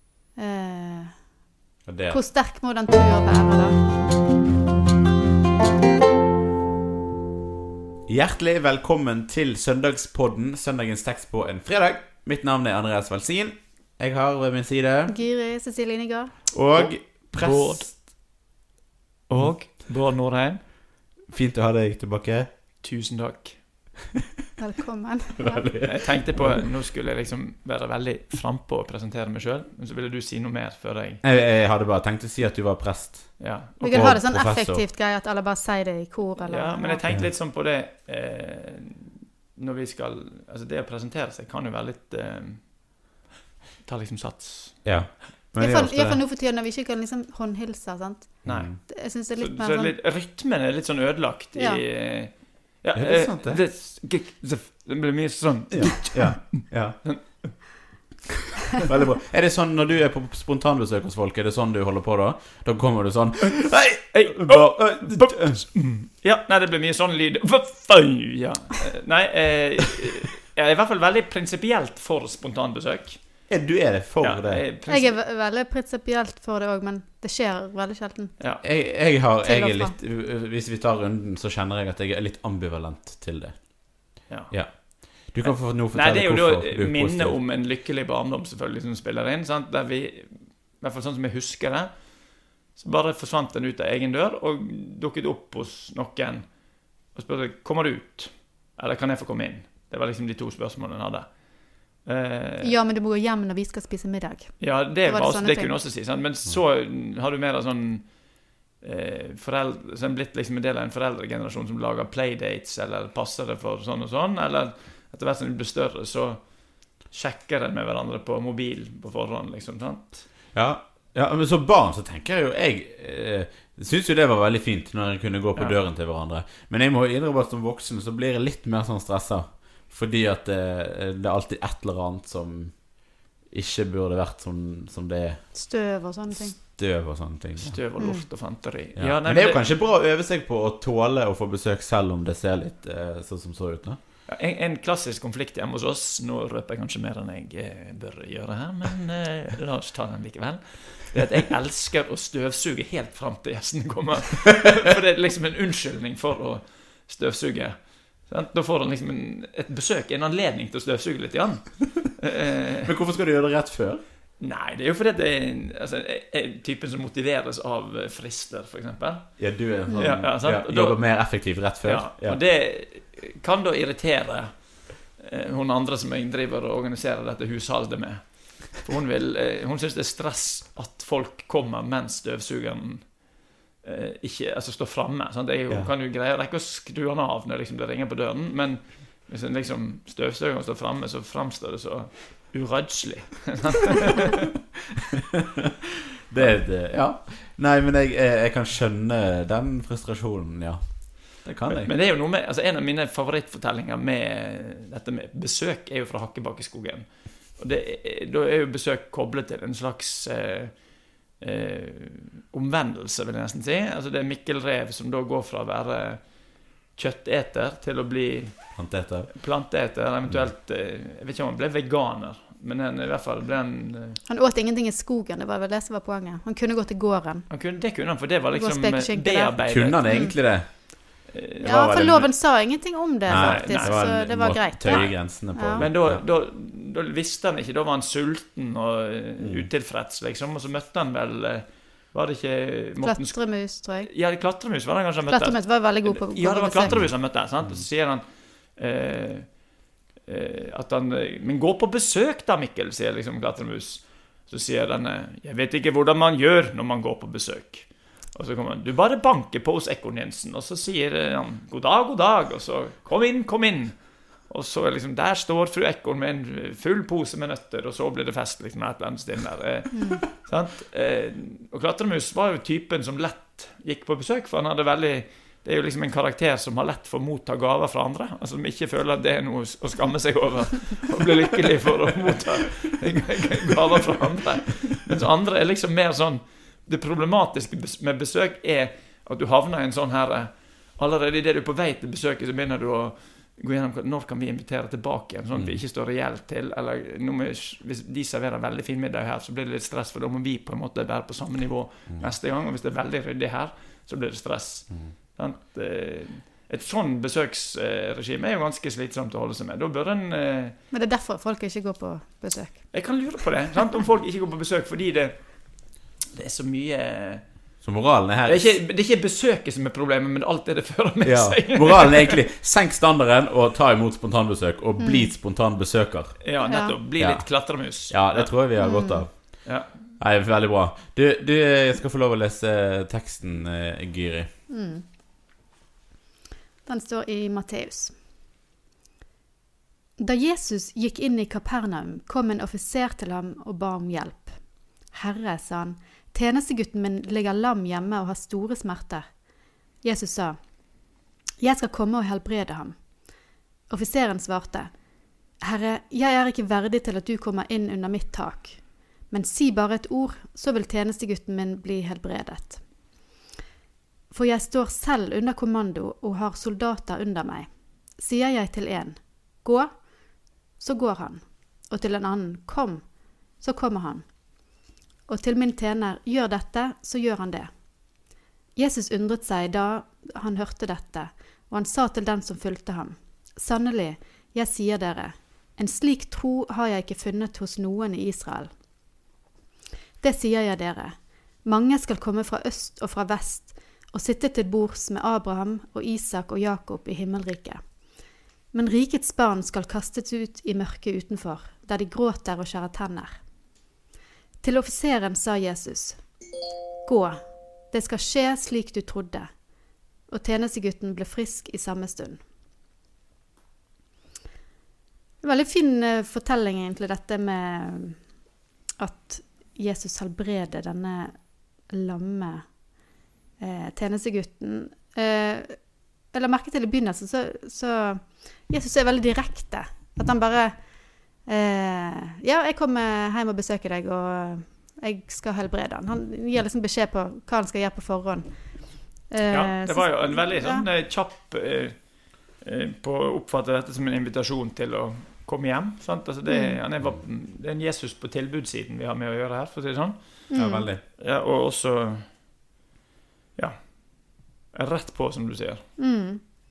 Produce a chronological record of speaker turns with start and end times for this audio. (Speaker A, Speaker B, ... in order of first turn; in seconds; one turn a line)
Speaker A: 0.4-1.3
Speaker B: 1.8-2.2
Speaker A: 2.1-3.8
Speaker B: 8.1-15.2
Speaker A: 15.1-16.4
Speaker B: 16.5-17.9
Speaker C: 16.8-18.2
Speaker C: 19.3-20.6
Speaker B: 21.2-22.5
Speaker C: 22.8-23.6
Speaker A: 24.6-25.7
Speaker B: 25.4-26.6
Speaker C: 25.8-31.2
Speaker B: 31.2-34.8
Speaker C: 33.4-34.0
Speaker A: 33.8-37.1
Speaker C: 36.4-43.1
Speaker C: 43.8-45.0
Speaker B: 44.8-46.2
Speaker A: 45.6-50.0
Speaker B: 48.4-48.8
Speaker C: 48.4-57.7
Speaker A: 51.5-51.8
Speaker B: 52.9-53.6
Speaker B: 55.7-57.6
Speaker B: 58.9-65.6
Speaker C: 63.4-73.5
Speaker B: 73.5-74.6
Speaker C: 74.2-75.2
Speaker A: 74.9-78.6
Speaker C: 78.4-78.6
Speaker B: 78.6-87.4
Speaker A: 79.4-80.0
Speaker C: 84.3-102.8
Speaker A: 102.6-105.8
Speaker C: 104.6-120.3
Speaker B: 120.5-144.0
Speaker A: 135.5-136.6
Speaker C: 137.6-139.7
Speaker A: 138.0-138.2
Speaker C: 144.3-162.9
Speaker B: 162.8-164.0
Speaker C: 164.4-194.4
Speaker B: 169.4-172.4
Speaker A: 169.9-170.2
Speaker B: 196.3-201.9
Speaker C: 201.7-224.2
Speaker B: 218.7-220.5
Speaker A: 224.2-227.7
Speaker C: 227.5-230.5
Speaker A: 228.5-230.9
Speaker B: 229.7-232.7
Speaker C: 231.3-232.2
Speaker A: 231.6-235.9
Speaker B: 233.2-236.2
Speaker C: 233.3-310.8
Speaker B: 239.4-239.7
Speaker A: 243.0-244.1
Speaker A: 245.2-247.0
Speaker B: 246.9-247.9
Speaker A: 269.9-270.2
Speaker B: 295.5-295.8
Speaker B: 304.9-305.1
Speaker A: 310.9-313.4
Speaker C: 312.9-317.8
Speaker B: 317.8-318.8
Speaker C: 318.4-322.4
Speaker B: 321.2-334.5
Speaker A: 325.0-325.4
Speaker C: 326.4-328.6
Speaker A: 326.6-327.0
Speaker A: 328.8-329.3
Speaker C: 329.6-330.1
Speaker A: 334.7-335.1
Speaker A: 336.9-338.2
Speaker A: 340.2-353.2
Speaker A: 353.9-363.0
Speaker A: 364.3-374.8
Speaker A: 375.2-377.9
Speaker A: 378.8-388.8
Speaker A: 390.2-398.1
Speaker A: 398.7-403.4
Speaker A: 404.6-406.3
Speaker A: 407.0-409.7
Speaker A: 410.3-412.4
Speaker A: 415.4-418.3
Speaker A: 419.0-423.0
Speaker A: 423.6-440.9
Speaker C: 439.5-452.3
Speaker A: 446.4-446.8
Speaker A: 450.5-450.9
Speaker B: 450.5-451.0
Speaker C: 453.6-456.0
Speaker A: 456.0-456.4